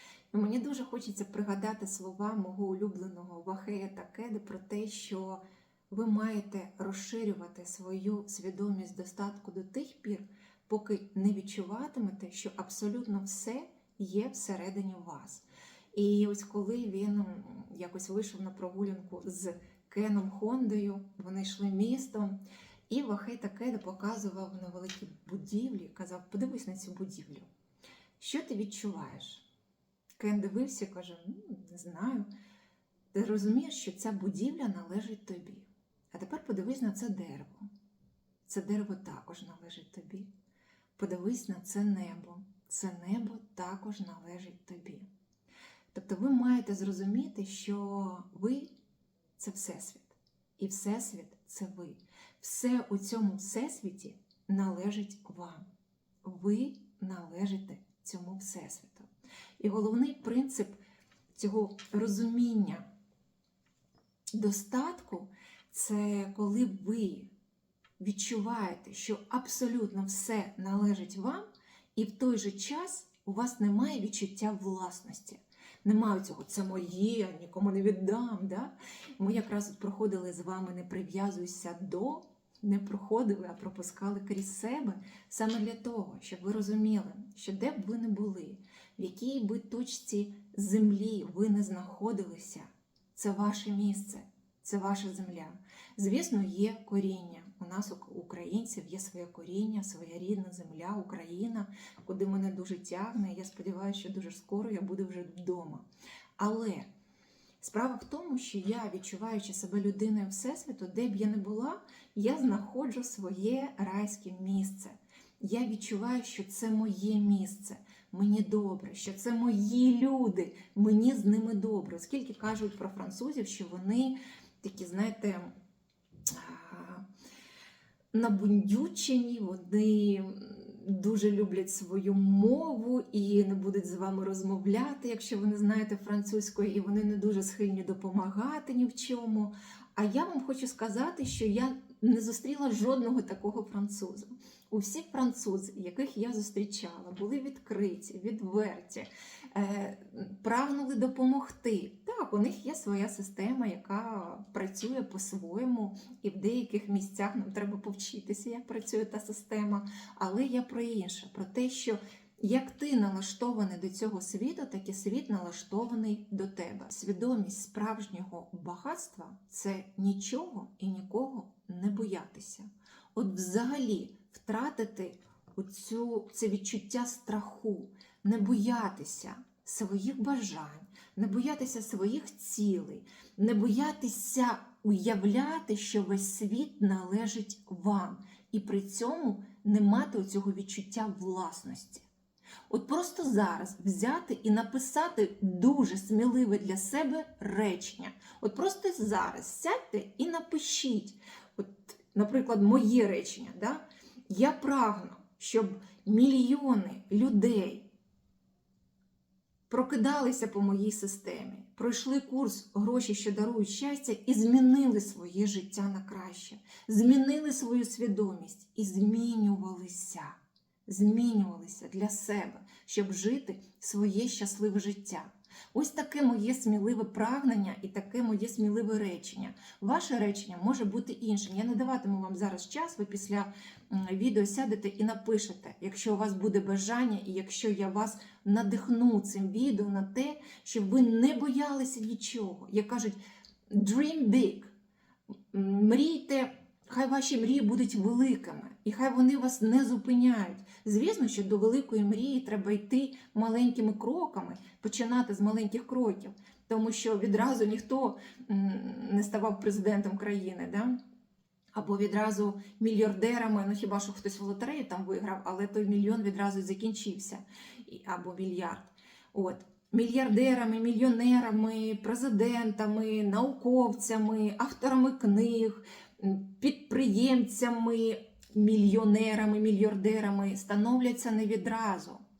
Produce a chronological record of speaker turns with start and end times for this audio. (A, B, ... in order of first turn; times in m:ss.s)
0:00.3-0:27.5 A
0:28.2-0:29.4 A
0:30.2-0:32.3 A
0:33.1-0:37.7 A
0:38.4-0:40.3 A
0:41.0-0:45.1 A
0:45.9-0:48.7 A
0:49.4-0:55.7 A
0:56.2-0:59.1 A
0:59.6-1:00.8 A
1:01.3-1:02.8 A
1:04.3-1:07.3 A
1:08.0-1:11.4 A
1:11.9-1:45.8 A
1:46.4-1:46.9 A
1:47.6-2:05.5 A
2:06.3-2:07.0 A
2:08.1-3:12.0 A
3:12.7-3:27.9 A
3:29.7-4:03.2 A
4:03.7-4:04.7 A
4:05.5-4:21.0 A
4:21.7-4:42.2 A